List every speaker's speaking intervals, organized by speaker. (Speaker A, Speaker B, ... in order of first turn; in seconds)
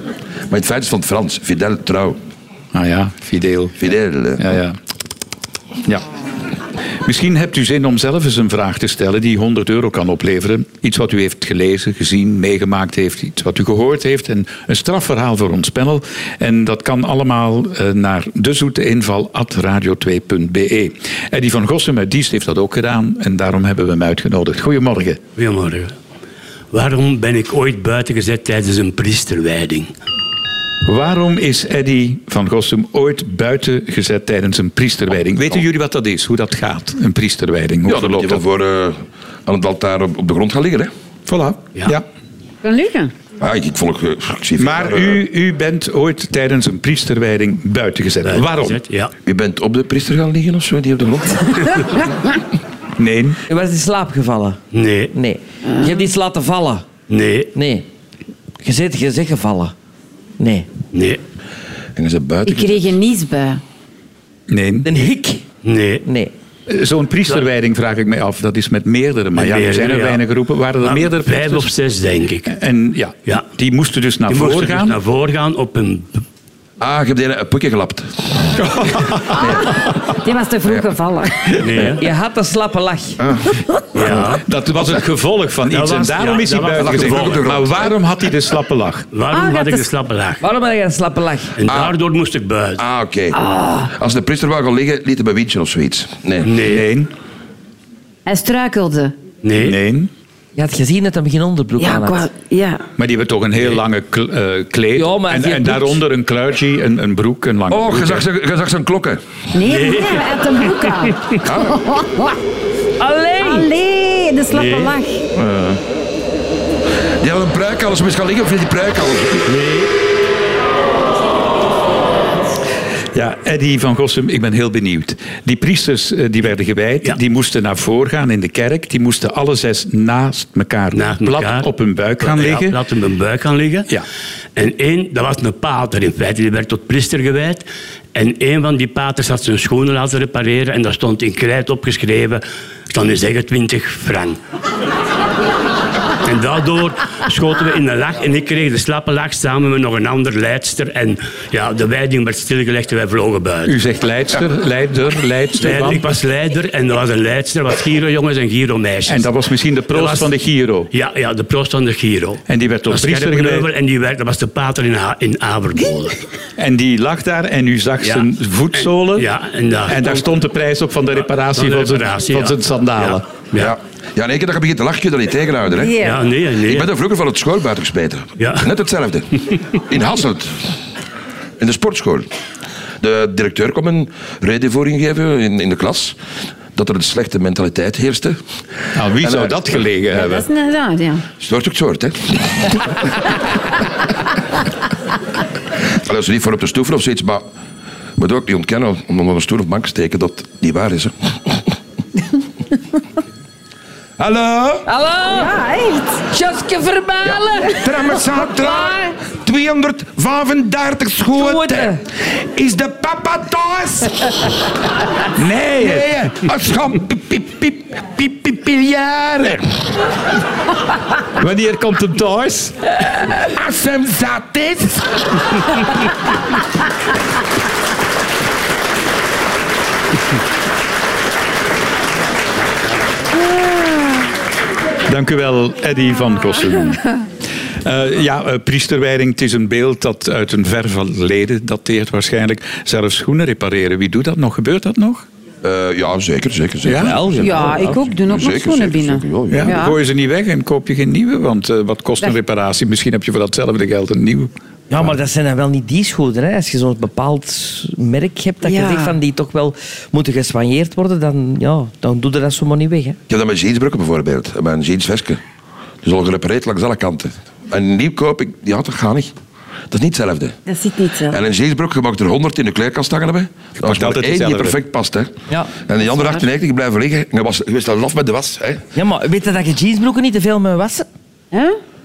Speaker A: 0.5-2.2, 3.8-4.4, 37.9-40.9, 43.4-45.2, 49.2-51.8, 62.0-62.9, 76.8-78.5, 79.4-79.6, 83.2-83.5, 86.8-88.0, 91.7-92.0, 92.8-96.5, 107.7-109.2, 111.4-111.8, 115.3-115.8, 117.2-119.5, 173.6-180.7, 181.6-182.3, 183.0-186.2, 186.8-188.4, 189.2-189.6, 191.4-192.8, 195.9-197.4, 198.2-201.7, 204.2-204.9, 207.2-214.3, 215.8-219.6, 223.5-225.1, 245.6-249.8, 263.3-265.4, 266.0-269.3, 269.9-270.6, 271.3-278.8
Speaker B: 2.7-3.8, 4.4-4.8, 7.0-25.2, 30.9-38.4, 41.3-42.0, 44.6-48.8, 53.0-53.4, 64.5-64.9, 66.7-71.7, 72.5-75.0, 78.6-79.5, 84.4-89.1, 96.6-97.1, 99.6-100.1, 103.0-108.2, 123.1-132.8, 153.6-156.1, 159.1-160.9, 162.5-163.7, 166.6-169.3, 169.9-173.2, 188.9-190.5, 215.4-216.1, 221.4-222.8, 235.1-237.0, 237.8-245.2, 246.8-247.2, 249.5-254.5, 273.8-274.8
Speaker C: 25.4-25.9, 26.7-29.9, 48.2-49.1, 54.7-55.1, 57.1-57.5, 60.9-61.2, 65.6-66.0, 69.3-70.2, 70.8-72.5, 74.3-76.2, 81.6-82.0, 83.9-84.4, 85.7-87.5, 89.1-90.4, 91.6-92.8, 96.5-96.8, 99.4-99.8, 109.6-111.3, 114.5-114.9, 119.5-119.9, 130.9-131.7, 132.2-133.9, 134.6-137.6, 138.1-144.4, 146.2-153.8, 155.6-159.3, 159.9-160.3, 160.9-166.2, 168.0-170.2, 171.6-173.7, 176.0-176.9, 178.4-178.7
Speaker D: 42.6-43.1, 62.5-63.6, 79.4-81.6, 89.3-89.9, 93.3-93.9, 98.2-99.2, 101.8-102.8, 109.5-112.4, 113.4-115.2, 175.8-176.2, 190.1-191.2, 205.3-206.3, 247.4-250.0, 258.6-259.2, 270.6-271.4, 281.5-281.8
Speaker E: 53.5-54.6, 55.1-56.9, 57.5-57.9, 58.6-59.7, 60.4-60.7, 64.8-65.4, 66.0-66.3, 81.9-83.2, 90.4-91.5, 100.6-102.2, 105.0-106.0, 113.0-113.7, 204.9-205.6, 206.3-207.9, 208.5-209.1, 211.3-212.0, 247.0-248.0, 254.9-263.2, 278.9-281.1